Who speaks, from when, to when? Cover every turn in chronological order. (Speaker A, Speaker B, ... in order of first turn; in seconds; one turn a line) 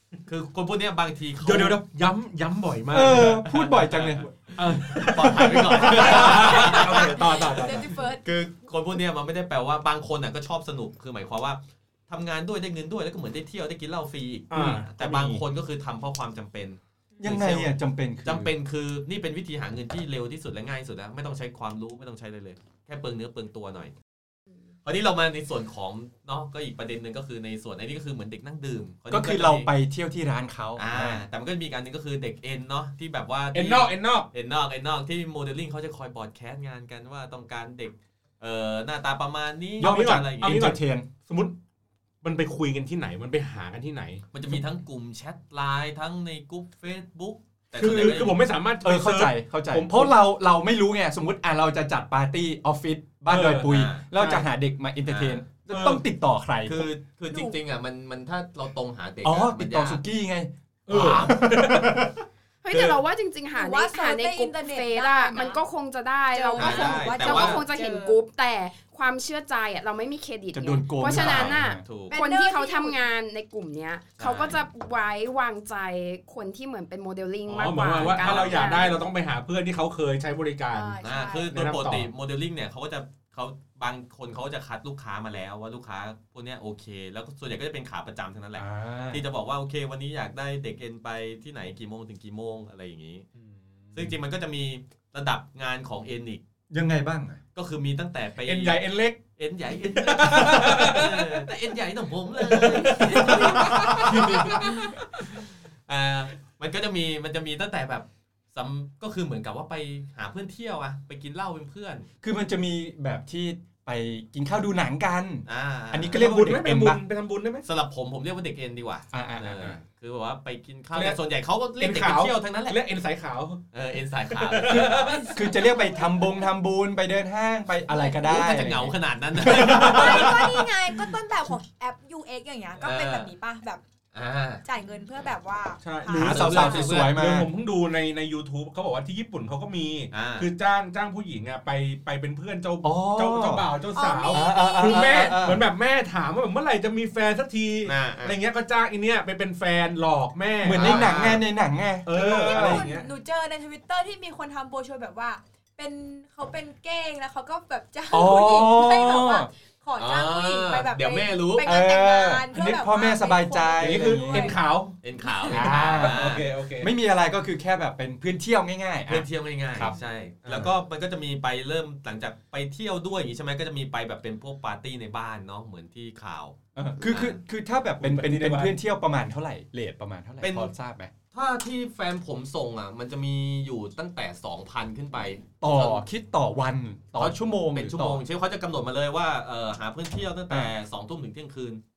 Speaker A: 0.3-1.8
Speaker B: 1.4-3.5
Speaker C: 2.9-4.3
Speaker A: 3.4-23.9
Speaker B: 4.6-8.0
Speaker C: 5.1-6.3
Speaker D: 6.5-8.3
Speaker B: 14.5-15.4
Speaker C: 14.6-14.8
Speaker C: 17.2-18.5
Speaker A: 24.9-29.7
Speaker C: 29.1-31.2
Speaker A: 30.8-40.7
Speaker B: 33.5-34.3
Speaker C: 39.8-41.1
Speaker B: 39.8-41.5
Speaker B: 42.2-44.2
Speaker A: 44.3-48.4
Speaker C: 47.8-56.9
Speaker B: 47.8-50.1
Speaker B: 53.3-54.5
Speaker A: 53.6-54.1
Speaker A: 55.1-55.5
Speaker B: 55.7-56.0
Speaker A: 56.7-60.0
Speaker D: 57.3-57.6
Speaker C: 59.2-62.2
Speaker B: 60.9-62.1
Speaker A: 60.9-61.4
Speaker E: 62.6-78.9
Speaker A: 62.7-63.0
Speaker D: 63.5-65.6
Speaker D: 66.3-68.2
Speaker A: 66.6-67.6
Speaker C: 70.5-71.8
Speaker A: 71.1-72.2
Speaker D: 72.1-73.0
Speaker A: 74.2-74.6
Speaker B: 77.5-82.1
Speaker A: 77.9-79.0
Speaker D: 80.7-81.5
Speaker A: 81.0-93.3
Speaker C: 88.6-89.2
Speaker B: 93.4-94.0
Speaker A: 93.9-96.4
Speaker C: 96.7-97.4
Speaker A: 97.5-98.8
Speaker B: 98.5-99.2
Speaker A: 99.4-112.1
Speaker B: 99.8-101.4
Speaker B: 102.5-104.8
Speaker D: 104.6-104.9
Speaker C: 112.2-117.0
Speaker A: 115.5-116.2
Speaker B: 116.1-117.7
Speaker A: 117.6-122.8
Speaker C: 119.1-119.8
Speaker B: 120.9-121.2
Speaker B: 121.8-123.6
Speaker A: 123.7-125.3
Speaker B: 124.3-125.3
Speaker C: 124.7-130.6
Speaker D: 125.2-126.0
Speaker A: 128.2-130.7
Speaker D: 129.7-133.8
Speaker A: 132.8-133.3
Speaker A: 134.1-134.6
Speaker D: 134.7-136.7
Speaker B: 135.8-151.4
Speaker C: 136.1-137.5
Speaker A: 136.2-137.1
Speaker A: 140.1-140.5
Speaker C: 142.8-143.7
Speaker D: 143.9-145.1
Speaker C: 144.3-145.6
Speaker A: 145.1-145.5
Speaker A: 147.8-148.4
Speaker C: 150.6-152.9
Speaker A: 150.7-151.4
Speaker B: 152.1-153.1
Speaker D: 152.1-164.6
Speaker C: 158.1-159.5
Speaker A: 160.0-161.7
Speaker C: 161.6-164.6
Speaker B: 163.8-165.0
Speaker A: 165.0-166.5
Speaker B: 165.5-166.9
Speaker C: 165.5-170.0
Speaker A: 169.1-177.4
Speaker B: 170.4-170.7
Speaker C: 176.8-181.1
Speaker B: 178.0-178.8
Speaker A: 180.4-180.7
Speaker A: 181.3-186.0
Speaker C: 185.6-188.2
Speaker A: 187.2-191.8